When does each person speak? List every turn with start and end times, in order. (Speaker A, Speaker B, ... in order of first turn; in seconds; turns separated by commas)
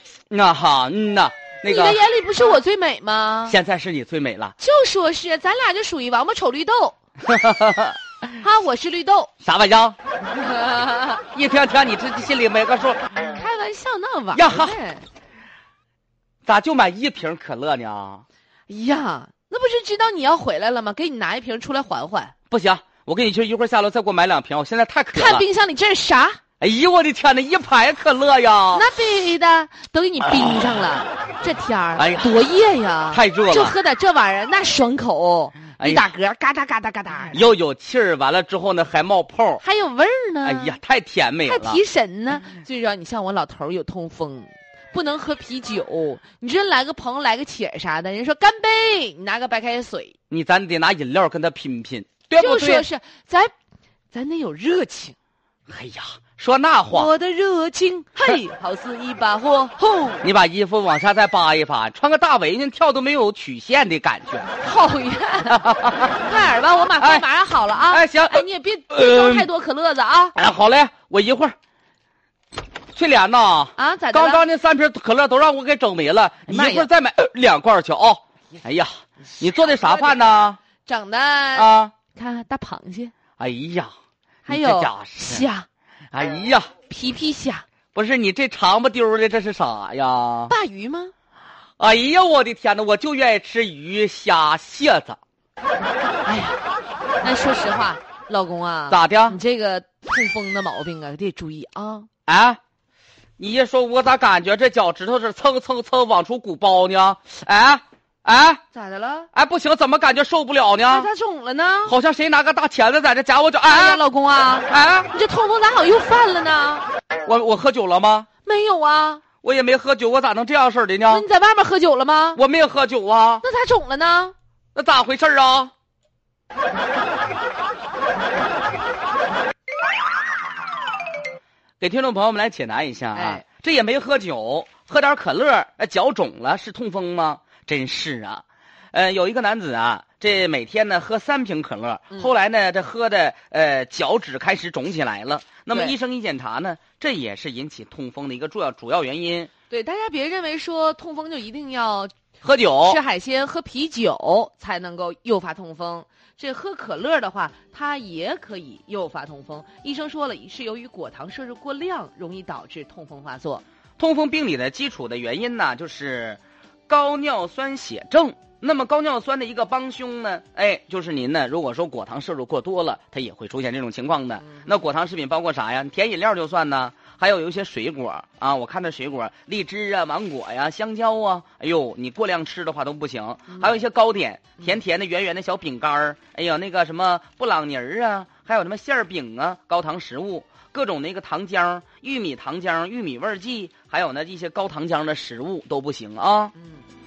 Speaker A: 0.3-2.0, Speaker B: 1.6-3.6, Speaker A: 3.5-4.5, Speaker B: 4.6-7.0, Speaker A: 7.2-8.0, Speaker B: 8.4-9.3, Speaker A: 9.4-10.0, Speaker B: 10.3-11.2, Speaker A: 11.3-13.1, Speaker B: 13.2-15.1, Speaker A: 14.3-14.8, Speaker A: 16.4-18.2, Speaker B: 18.7-22.3, Speaker A: 22.5-25.5, Speaker B: 25.1-26.4, Speaker A: 26.6-28.9, Speaker B: 28.7-37.4, Speaker A: 32.0-32.3, Speaker A: 33.1-33.8, Speaker A: 35.8-36.1, Speaker A: 37.3-39.6, Speaker B: 39.6-40.8, Speaker A: 40.4-41.8, Speaker B: 41.5-50.2, Speaker A: 50.3-52.9, Speaker B: 52.4-53.5, Speaker B: 54.1-55.1, Speaker A: 55.7-57.1, Speaker B: 56.9-60.2, Speaker A: 60.2-64.5, Speaker B: 64.6-70.3, Speaker A: 65.5-66.2, Speaker A: 67.0-67.2, Speaker A: 67.9-69.5, Speaker A: 70.3-71.5, Speaker A: 72.9-80.6, Speaker B: 73.8-74.4, Speaker B: 76.5-76.9, Speaker B: 79.5-80.3, Speaker B: 80.8-83.1, Speaker A: 81.5-81.9, Speaker A: 83.4-83.9, Speaker B: 84.5-85.7, Speaker A: 84.5-85.5, Speaker A: 86.1-86.7, Speaker B: 86.9-87.7, Speaker A: 87.9-90.5, Speaker B: 90.5-91.1, Speaker A: 91.8-95.2, Speaker B: 96.2-96.6, Speaker B: 97.2-102.1, Speaker A: 98.9-99.4, Speaker A: 102.3-102.6, Speaker A: 103.4-108.6, Speaker B: 108.7-109.3, Speaker A: 109.3-111.1, Speaker B: 110.9-112.0, Speaker A: 111.9-114.0, Speaker B: 113.7-116.9, Speaker A: 114.7-115.1, Speaker A: 117.3-118.3, Speaker B: 118.4-119.2, Speaker A: 119.4-121.2, Speaker B: 121.1-122.4, Speaker A: 122.4-123.4, Speaker B: 123.4-124.3, Speaker A: 124.8-125.7, Speaker A: 131.8-149.5, Speaker B: 133.1-133.4, Speaker B: 149.7-152.1, Speaker A: 152.4-153.0, Speaker B: 152.8-163.6, Speaker A: 164.0-196.5, Speaker B: 174.4-174.7, Speaker B: 183.5-183.8, Speaker B: 196.6-196.8